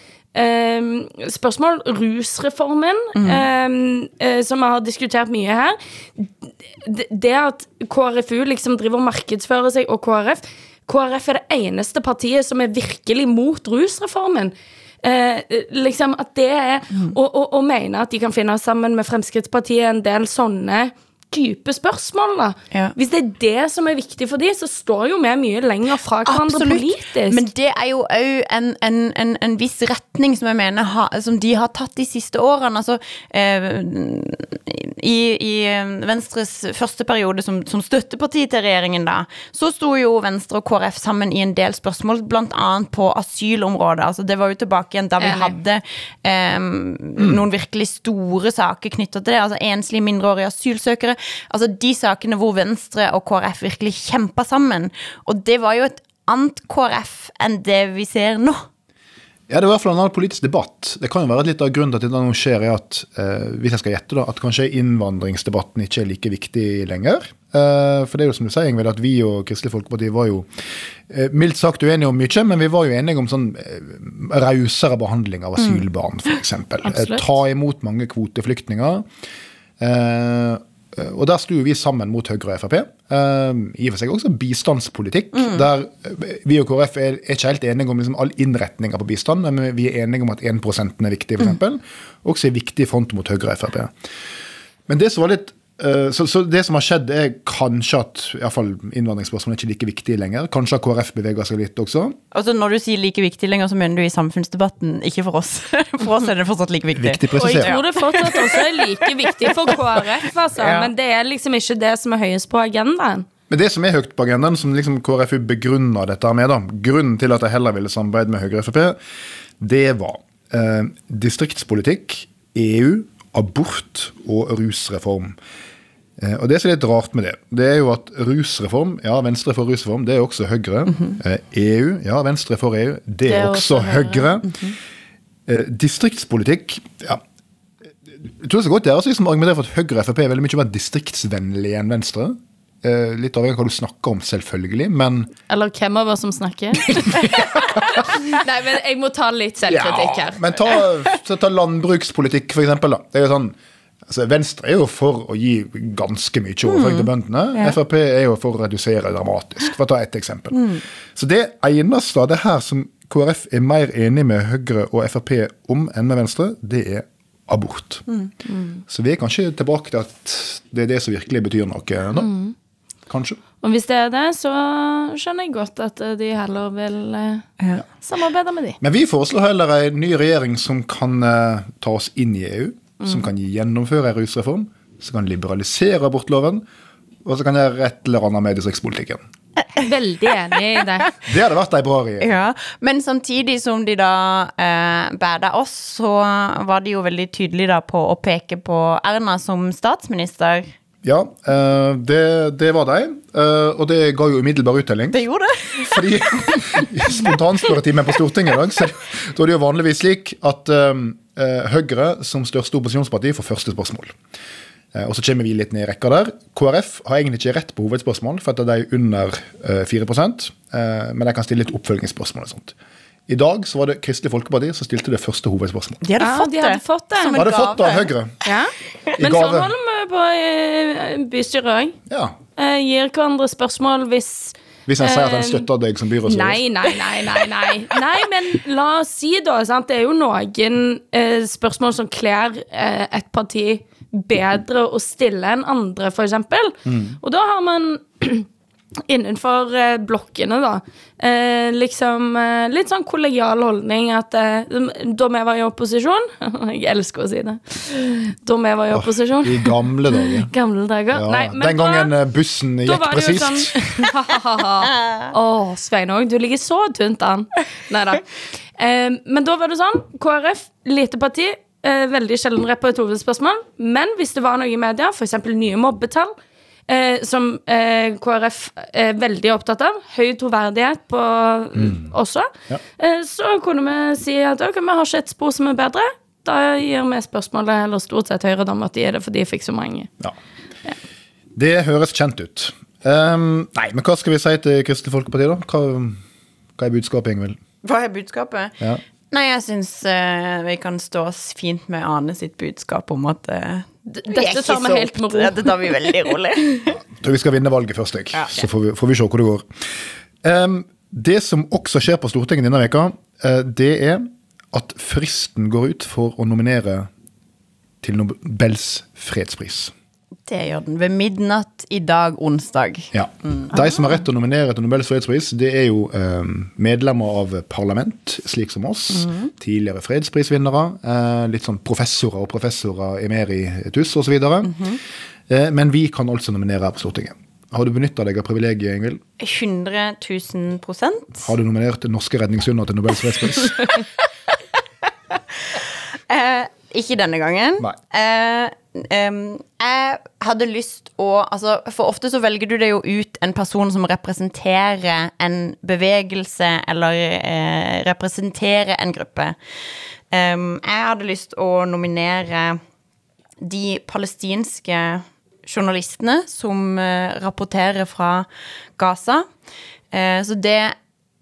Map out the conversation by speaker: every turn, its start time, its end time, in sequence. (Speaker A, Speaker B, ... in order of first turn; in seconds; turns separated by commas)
Speaker A: 0.3-27.4, Speaker B: 3.1-3.5, Speaker B: 26.2-58.6, Speaker A: 45.2-45.6, Speaker C: 47.2-47.4, Speaker C: 59.5-70.5, Speaker C: 71.1-79.0, Speaker A: 76.8-77.2, Speaker C: 79.8-93.9, Speaker C: 94.9-102.2, Speaker B: 102.3-110.9, Speaker C: 107.0-107.8, Speaker A: 107.3-113.2, Speaker C: 113.5-119.0, Speaker C: 119.6-125.4, Speaker C: 126.2-134.7, Speaker A: 133.2-134.3, Speaker C: 135.5-137.2, Speaker C: 138.1-145.3, Speaker A: 145.5-150.6, Speaker C: 147.0-148.0, Speaker C: 149.7-153.5, Speaker C: 154.1-168.0, Speaker B: 156.7-157.8, Speaker A: 168.5-168.8, Speaker C: 168.9-172.3, Speaker A: 172.2-172.5, Speaker C: 173.1-173.4, Speaker A: 173.6-178.8, Speaker C: 178.8-186.6, Speaker C: 187.2-189.2, Speaker A: 189.8-191.1, Speaker C: 191.2-192.3, Speaker B: 192.2-200.7, Speaker C: 201.0-205.2, Speaker B: 205.1-206.6, Speaker C: 205.7-214.1, Speaker C: 214.9-222.7, Speaker C: 223.3-226.0, Speaker B: 226.0-228.1, Speaker A: 226.2-227.5, Speaker C: 227.3-228.3, Speaker A: 228.4-231.9, Speaker C: 229.2-229.7, Speaker C: 232.1-232.3, Speaker A: 232.6-235.7, Speaker C: 234.8-236.6, Speaker A: 236.2-248.5, Speaker C: 246.8-247.2, Speaker A: 249.1-262.1, Speaker C: 258.9-260.5, Speaker C: 261.1-263.8, Speaker A: 262.9-276.3, Speaker B: 264.9-265.3, Speaker A: 276.9-290.1, Speaker C: 291.5-296.2, Speaker C: 296.8-297.6, Speaker B: 297.8-306.9, Speaker A: 304.1-306.1, Speaker C: 306.9-309.6, Speaker B: 308.3-308.6, Speaker C: 310.4-317.1, Speaker C: 318.0-319.9, Speaker B: 320.5-323.7, Speaker C: 323.1-334.8, Speaker B: 329.2-329.5, Speaker B: 334.6-335.0, Speaker C: 335.5-339.2, Speaker B: 339.4-341.5, Speaker C: 341.4-343.9, Speaker B: 345.7-359.6, Speaker B: 360.3-362.8, Speaker B: 363.6-369.5, Speaker B: 370.1-370.9